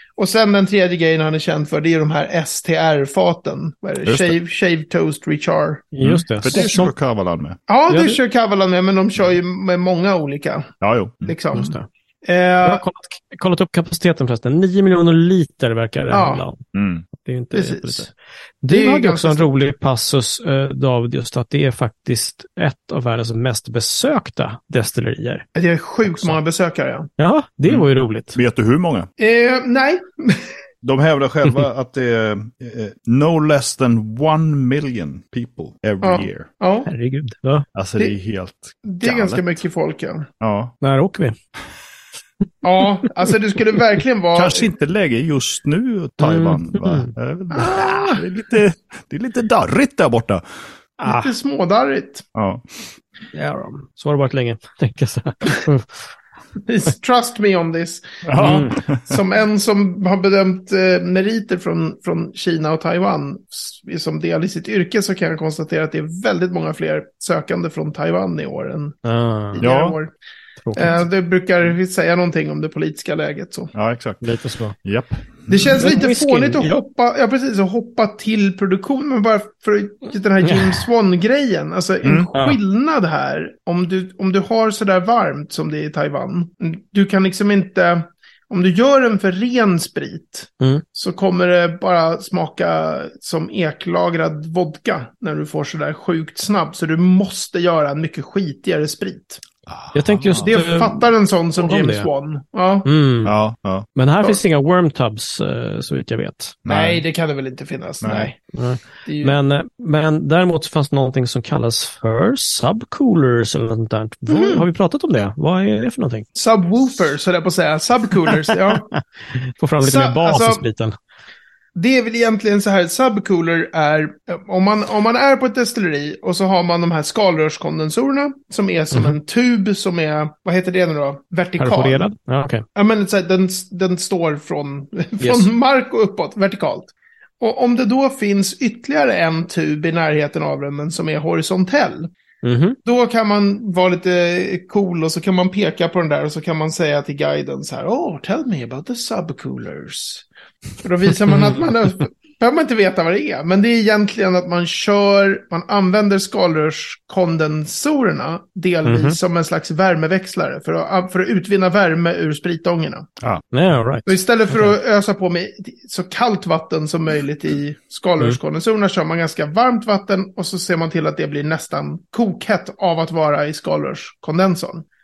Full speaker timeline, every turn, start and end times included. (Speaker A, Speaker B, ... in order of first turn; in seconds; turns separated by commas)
Speaker A: 0.2-5.9, Speaker B: 4.0-4.4, Speaker C: 5.9-6.9, Speaker B: 6.0-7.6, Speaker A: 7.7-12.8, Speaker C: 7.9-8.2, Speaker B: 10.8-11.3, Speaker C: 11.5-11.9, Speaker C: 12.6-16.6, Speaker A: 16.1-16.4, Speaker B: 16.7-17.1, Speaker C: 17.2-25.5, Speaker A: 17.5-18.1, Speaker A: 18.7-19.5, Speaker A: 25.6-27.1, Speaker C: 26.0-26.4, Speaker C: 27.2-28.4, Speaker B: 27.7-29.1, Speaker A: 29.2-30.5, Speaker B: 30.8-36.5, Speaker A: 36.0-36.9, Speaker C: 36.9-37.7, Speaker B: 37.8-39.4, Speaker A: 38.9-40.3, Speaker B: 40.4-40.7, Speaker C: 40.8-41.4, Speaker A: 42.6-44.7, Speaker B: 44.4-50.4, Speaker C: 46.2-47.1, Speaker A: 47.5-48.2, Speaker A: 51.0-52.2, Speaker C: 51.0-51.3, Speaker B: 52.4-52.6, Speaker C: 53.3-56.0, Speaker A: 56.6-69.0, Speaker B: 58.2-59.2, Speaker C: 58.4-58.8, Speaker C: 69.0-69.7, Speaker A: 69.5-70.1, Speaker B: 69.6-70.0, Speaker C: 70.6-71.0, Speaker A: 70.8-73.7, Speaker B: 73.7-74.3, Speaker C: 74.2-74.8, Speaker B: 74.8-75.8, Speaker A: 75.5-99.4, Speaker C: 75.7-76.8, Speaker C: 80.4-80.9, Speaker B: 82.0-82.3, Speaker C: 82.3-82.6, Speaker B: 99.7-100.6, Speaker C: 99.9-102.1, Speaker A: 100.4-102.9, Speaker C: 102.8-103.3, Speaker B: 103.2-103.9, Speaker C: 104.0-106.6, Speaker B: 106.7-107.0, Speaker A: 106.7-108.4, Speaker B: 108.0-108.3, Speaker C: 108.5-116.3, Speaker A: 109.1-109.4, Speaker A: 114.3-114.7, Speaker A: 116.3-118.9, Speaker C: 118.7-120.9, Speaker A: 119.8-120.6, Speaker A: 121.8-132.1, Speaker C: 131.6-132.6, Speaker A: 132.8-142.1, Speaker C: 135.2-135.5, Speaker C: 142.4-142.8, Speaker A: 142.8-150.3, Speaker A: 150.8-163.1, Speaker C: 151.2-151.7, Speaker C: 158.8-159.2, Speaker C: 163.5-164.8, Speaker A: 164.1-174.8